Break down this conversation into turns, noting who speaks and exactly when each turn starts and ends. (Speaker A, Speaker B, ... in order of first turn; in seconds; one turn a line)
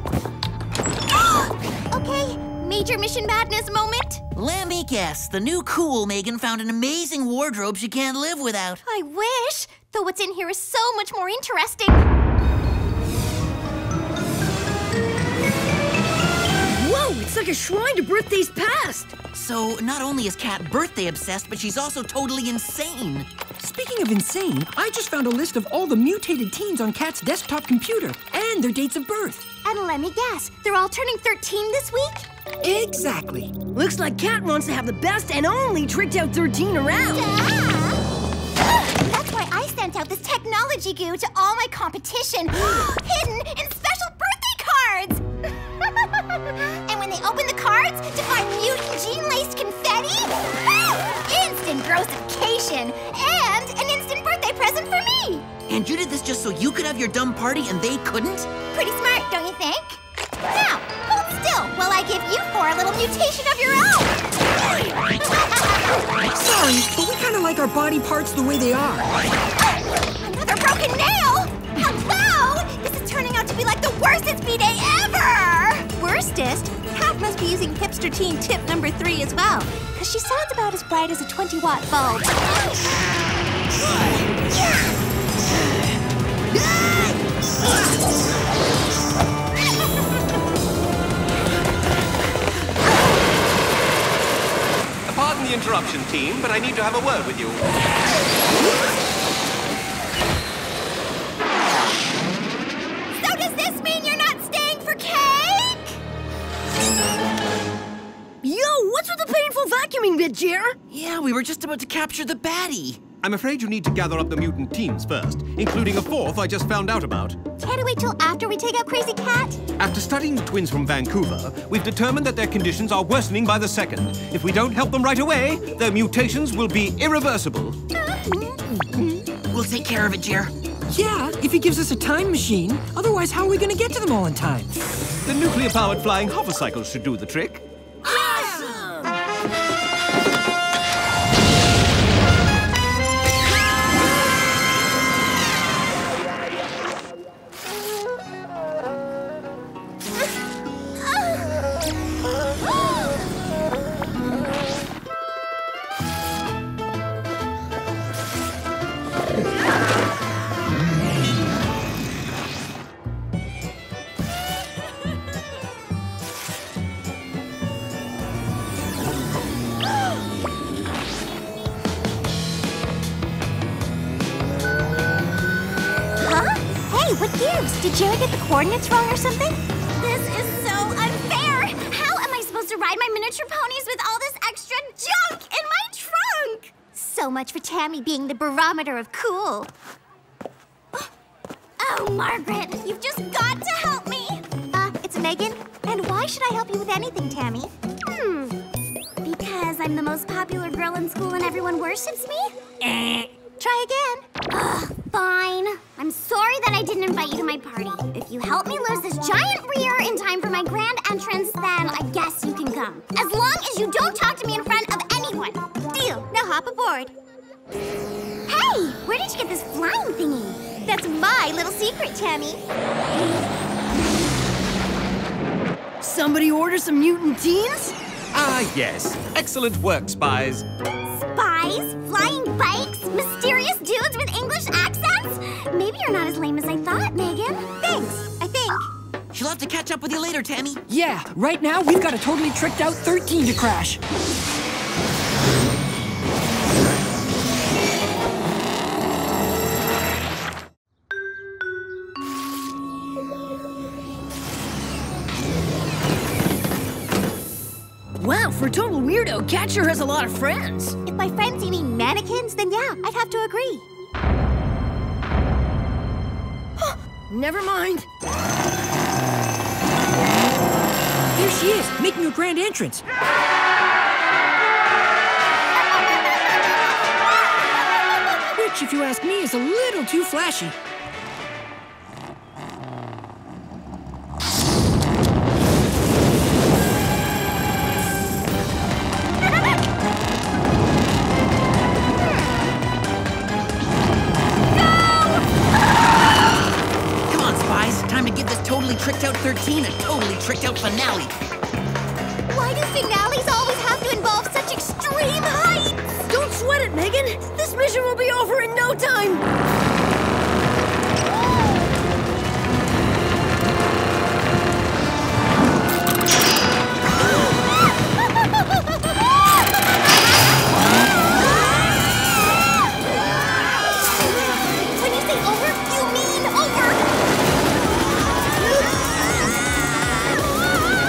Speaker A: 1.1-4.2
Speaker B: 4.3-8.8
Speaker A: 8.8-12.1
Speaker C: 16.8-19.1
Speaker B: 19.3-23.3
Speaker D: 23.6-29.5
Speaker A: 29.6-32.3
Speaker D: 32.6-33.5
Speaker C: 33.7-37.3
Speaker A: 37.3-37.7
Speaker A: 38.8-45.2
Speaker A: 46.9-55.5
Speaker B: 55.7-58.5
Speaker A: 58.7-64.2
Speaker A: 65.2-65.6
Speaker D: 66.3-69.1
Speaker A: 70.2-82.5
Speaker E: 95.1-97.6
Speaker A: 103.2-105.8
Speaker F: 104.3-105.5
Speaker C: 108.4-110.8
Speaker B: 110.9-113.0
Speaker E: 113.2-117.4
Speaker A: 117.6-119.6
Speaker E: 119.8-127.8
Speaker B: 129.5-130.5
Speaker D: 130.9-134.7
Speaker E: 135.2-137.6
Speaker C: 138.0-139.2
Speaker A: 176.2-179.6
Speaker F: 180.0-183.4
Speaker A: 182.7-189.7
Speaker F: 191.8-194.4
Speaker A: 194.7-197.7
Speaker F: 198.1-198.6
Speaker F: 199.2-203.3
Speaker A: 203.6-204.3
Speaker F: 204.5-215.7
Speaker A: 215.9-217.1
Speaker F: 218.5-220.7
Speaker A: 220.8-222.6
Speaker C: 226.0-227.9
Speaker E: 228.3-230.7
Speaker F: 231.1-238.8
Speaker A: 238.3-238.7
Speaker B: 239.3-240.8
Speaker D: 240.9-244.0
Speaker C: 258.2-261.0
Speaker A: 261.1-263.9
Speaker C: 266.8-268.1
Speaker D: 271.3-273.1
Speaker D: 278.5-280.8
Speaker B: 297.3-301.4
Speaker A: 302.5-306.1
Speaker C: 306.3-309.4
Speaker A: 324.8-327.0